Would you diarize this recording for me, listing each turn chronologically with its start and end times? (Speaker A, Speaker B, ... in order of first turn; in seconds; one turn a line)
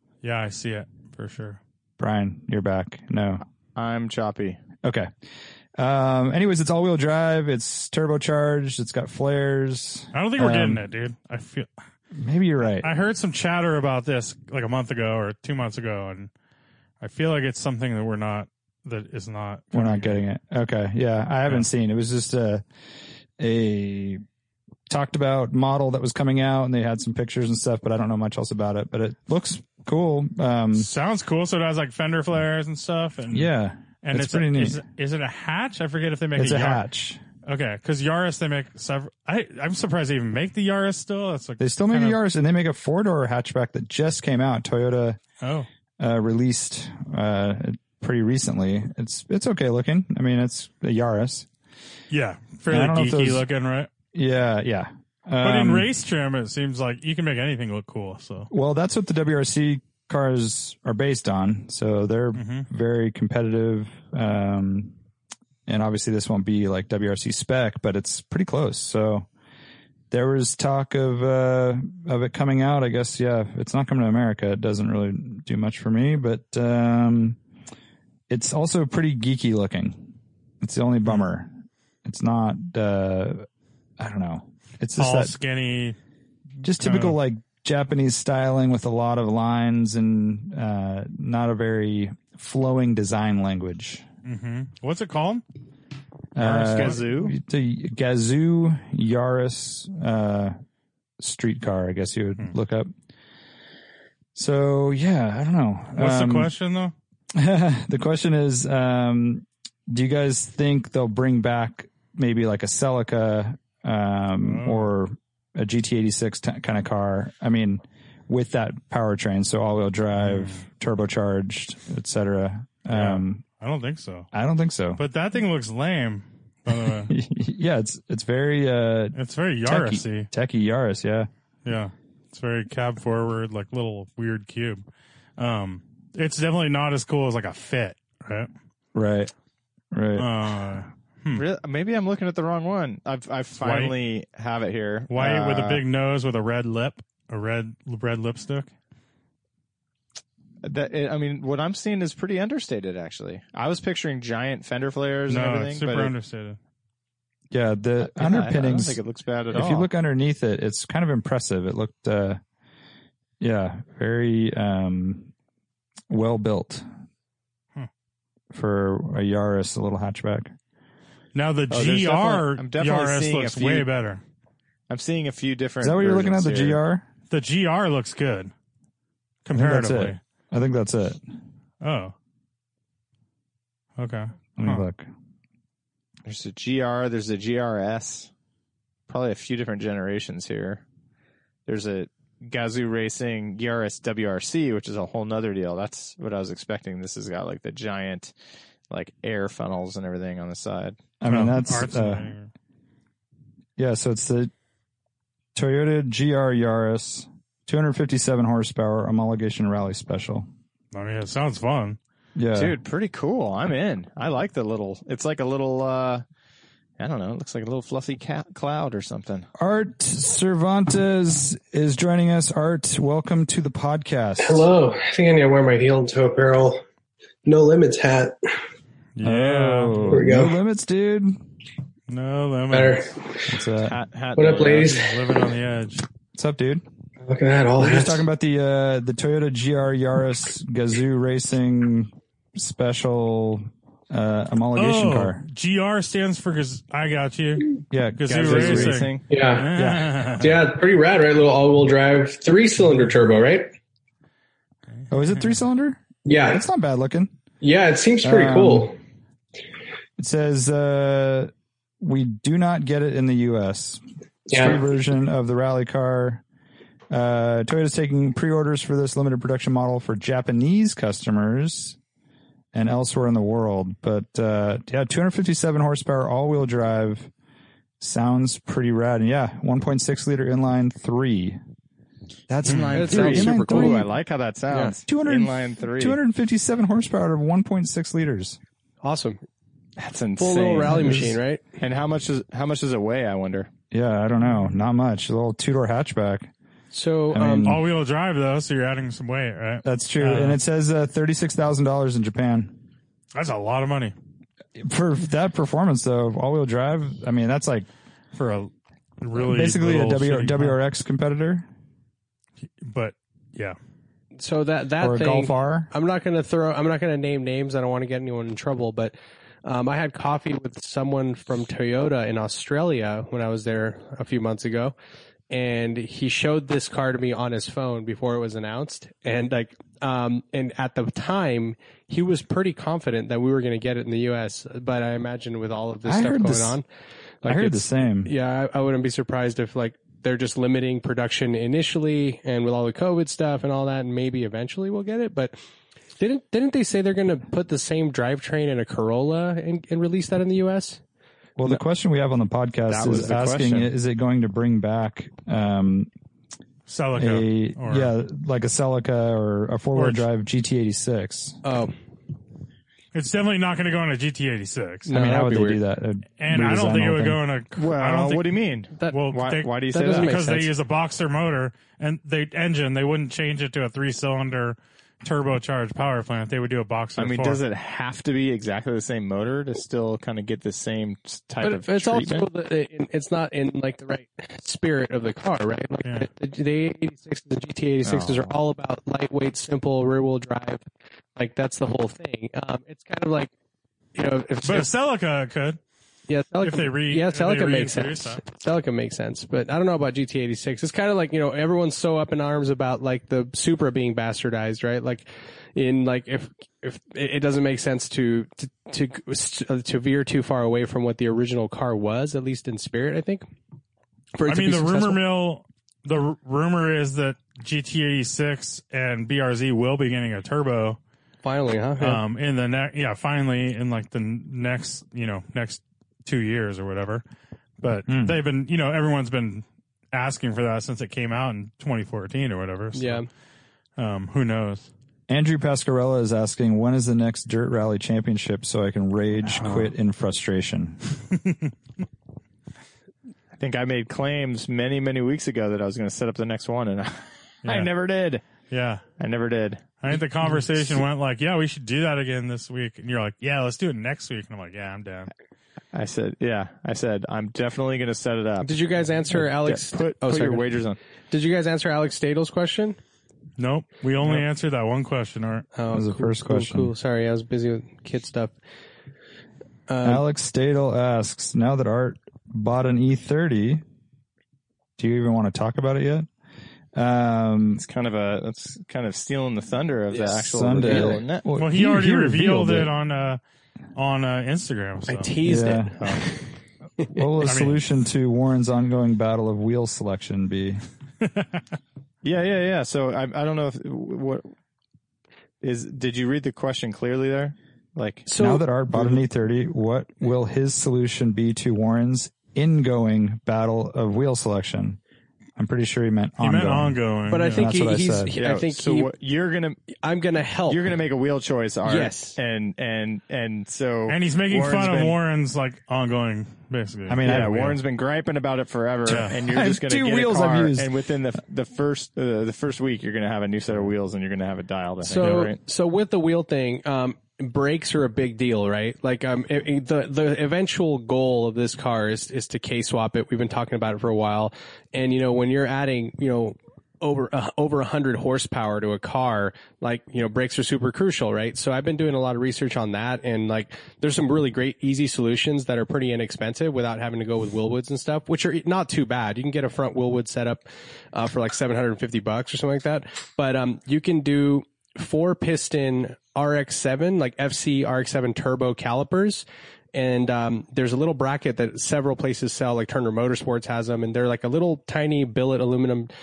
Speaker A: 0.2-1.6
Speaker B: 2.0-3.4
Speaker C: 3.8-4.6
Speaker B: 4.8-5.1
Speaker B: 5.8-10.8
Speaker A: 10.1-11.7
Speaker B: 12.1-12.9
Speaker A: 12.8-16.3
Speaker A: 17.0-20.2
Speaker B: 19.7-22.6
Speaker B: 23.4-24.2
Speaker B: 24.9-30.9
Speaker A: 30.7-33.5
Speaker B: 33.3-34.8
Speaker A: 34.0-36.9
Speaker B: 36.4-37.2
Speaker A: 37.5-42.2
Speaker B: 41.6-45.2
Speaker A: 45.4-45.7
Speaker B: 46.0-51.5
Speaker A: 52.1-53.9
Speaker B: 52.7-53.5
Speaker B: 54.1-55.9
Speaker A: 55.4-58.5
Speaker B: 58.5-64.9
Speaker A: 62.3-62.7
Speaker B: 65.7-69.3
Speaker B: 70.1-77.4
Speaker B: 78.3-81.5
Speaker B: 82.0-83.5
Speaker B: 84.0-85.3
Speaker A: 85.0-86.0
Speaker B: 86.6-94.0
Speaker A: 86.7-87.2
Speaker A: 94.2-95.4
Speaker B: 96.3-100.5
Speaker C: 96.4-97.4
Speaker B: 101.2-102.9
Speaker B: 104.3-106.5
Speaker A: 106.0-106.9
Speaker B: 107.3-123.4
Speaker A: 114.4-114.9
Speaker A: 120.2-120.6
Speaker A: 122.9-124.3
Speaker B: 124.3-125.0
Speaker A: 125.0-127.1
Speaker B: 126.7-131.3
Speaker A: 129.1-130.3
Speaker A: 131.6-134.8
Speaker A: 135.4-138.5
Speaker B: 138.9-139.3
Speaker B: 139.9-140.3
Speaker A: 140.2-141.4
Speaker C: 141.3-145.8
Speaker A: 143.6-143.9
Speaker A: 145.1-148.7
Speaker C: 150.6-156.1
Speaker A: 155.3-156.6
Speaker B: 157.5-159.0
Speaker C: 158.0-159.9
Speaker B: 159.5-162.4
Speaker B: 163.4-165.3
Speaker B: 166.1-166.8
Speaker B: 168.5-170.5
Speaker A: 171.3-174.2
Speaker C: 171.7-173.9
Speaker C: 174.9-176.8
Speaker B: 175.8-177.1
Speaker A: 177.3-178.5
Speaker A: 179.4-180.2
Speaker B: 179.5-181.2
Speaker A: 181.8-182.1
Speaker A: 184.0-184.9
Speaker B: 184.6-185.1
Speaker C: 186.3-188.3
Speaker C: 189.1-190.8
Speaker C: 191.7-198.3
Speaker C: 198.9-201.0
Speaker B: 201.2-202.3
Speaker A: 201.3-202.5
Speaker B: 203.8-204.5
Speaker B: 205.6-210.5
Speaker A: 210.9-212.0
Speaker B: 212.3-212.8
Speaker C: 212.5-216.2
Speaker C: 217.0-219.5
Speaker B: 219.6-224.7
Speaker D: 224.4-226.8
Speaker D: 227.4-228.4
Speaker A: 229.2-230.3
Speaker B: 229.2-231.4
Speaker D: 230.1-230.6
Speaker A: 232.1-233.1
Speaker D: 232.7-233.4
Speaker B: 233.4-234.0
Speaker C: 233.8-235.0
Speaker D: 234.4-235.1
Speaker A: 234.4-236.1
Speaker B: 236.3-236.8
Speaker D: 237.2-238.2
Speaker B: 237.8-245.4
Speaker A: 244.8-250.6
Speaker B: 247.9-249.1
Speaker C: 248.3-249.3
Speaker D: 249.3-249.7
Speaker B: 249.7-250.2
Speaker D: 250.4-253.7
Speaker A: 254.9-255.6
Speaker B: 255.1-257.3
Speaker D: 256.3-256.6
Speaker D: 257.6-258.9
Speaker B: 258.2-258.9
Speaker B: 260.2-264.0
Speaker D: 264.5-264.8
Speaker B: 264.5-266.4
Speaker B: 267.1-272.0
Speaker B: 272.7-277.3
Speaker B: 278.0-281.6
Speaker B: 282.5-284.1
Speaker C: 282.5-286.2
Speaker A: 282.6-282.9
Speaker D: 282.9-284.1
Speaker D: 284.7-284.9
Speaker B: 285.1-288.6
Speaker D: 289.0-289.4
Speaker C: 290.0-293.7
Speaker D: 290.4-291.6
Speaker B: 290.9-291.4
Speaker B: 293.9-296.5
Speaker D: 296.9-297.7
Speaker B: 297.3-297.8
Speaker A: 297.6-300.6
Speaker B: 299.8-302.8
Speaker A: 303.4-304.1
Speaker B: 304.8-307.9
Speaker A: 308.3-310.8
Speaker B: 309.4-311.6
Speaker A: 312.8-313.8
Speaker D: 314.4-319.1
Speaker B: 315.0-315.9
Speaker D: 319.6-324.9
Speaker D: 325.5-336.8
Speaker B: 336.1-336.8
Speaker D: 337.4-345.6
Speaker B: 337.4-338.3
Speaker D: 346.2-351.0
Speaker B: 351.6-356.1
Speaker C: 352.9-353.9
Speaker A: 356.9-358.1
Speaker B: 357.2-361.6
Speaker A: 359.9-360.3
Speaker D: 361.6-361.9
Speaker A: 363.1-365.1
Speaker D: 365.1-365.8
Speaker B: 365.1-367.4
Speaker A: 366.4-377.6
Speaker C: 367.8-370.6
Speaker D: 369.9-370.7
Speaker C: 377.2-382.4
Speaker D: 381.6-390.8
Speaker C: 388.0-388.6
Speaker D: 391.4-393.5
Speaker D: 394.1-394.9
Speaker A: 394.6-395.8
Speaker D: 396.3-413.4
Speaker A: 396.6-398.4
Speaker D: 414.4-415.2
Speaker A: 414.4-421.0
Speaker D: 421.4-422.2
Speaker A: 422.0-427.2
Speaker A: 427.8-433.3
Speaker B: 428.1-428.4
Speaker D: 432.9-433.3
Speaker A: 434.0-434.9
Speaker B: 435.3-441.0
Speaker A: 439.6-439.9
Speaker A: 441.3-441.7
Speaker C: 443.5-448.4
Speaker A: 447.6-447.9
Speaker A: 448.7-449.0
Speaker C: 449.2-450.2
Speaker A: 450.0-455.3
Speaker C: 455.9-461.0
Speaker D: 458.6-460.7
Speaker D: 461.3-463.0
Speaker A: 463.6-465.7
Speaker D: 465.8-468.5
Speaker B: 465.9-466.9
Speaker D: 469.9-470.2
Speaker B: 470.0-473.8
Speaker B: 475.0-476.3
Speaker B: 476.9-477.8
Speaker C: 477.8-481.4
Speaker D: 480.1-481.2
Speaker B: 480.4-482.9
Speaker A: 481.6-483.4
Speaker A: 483.9-485.3
Speaker D: 485.1-486.5
Speaker B: 485.4-485.9
Speaker A: 485.9-486.3
Speaker B: 487.1-490.8
Speaker A: 487.4-487.8
Speaker A: 491.2-491.6
Speaker C: 492.2-494.5
Speaker C: 495.6-498.3
Speaker D: 498.3-498.6
Speaker B: 498.4-505.0
Speaker C: 498.9-499.2
Speaker B: 505.6-508.3
Speaker A: 506.4-507.6
Speaker D: 507.3-509.1
Speaker C: 508.3-509.9
Speaker D: 510.0-510.8
Speaker C: 510.7-515.2
Speaker D: 511.8-512.4
Speaker A: 514.1-517.8
Speaker B: 517.1-517.8
Speaker C: 517.2-525.6
Speaker A: 519.1-519.4
Speaker B: 519.1-520.9
Speaker D: 525.0-566.1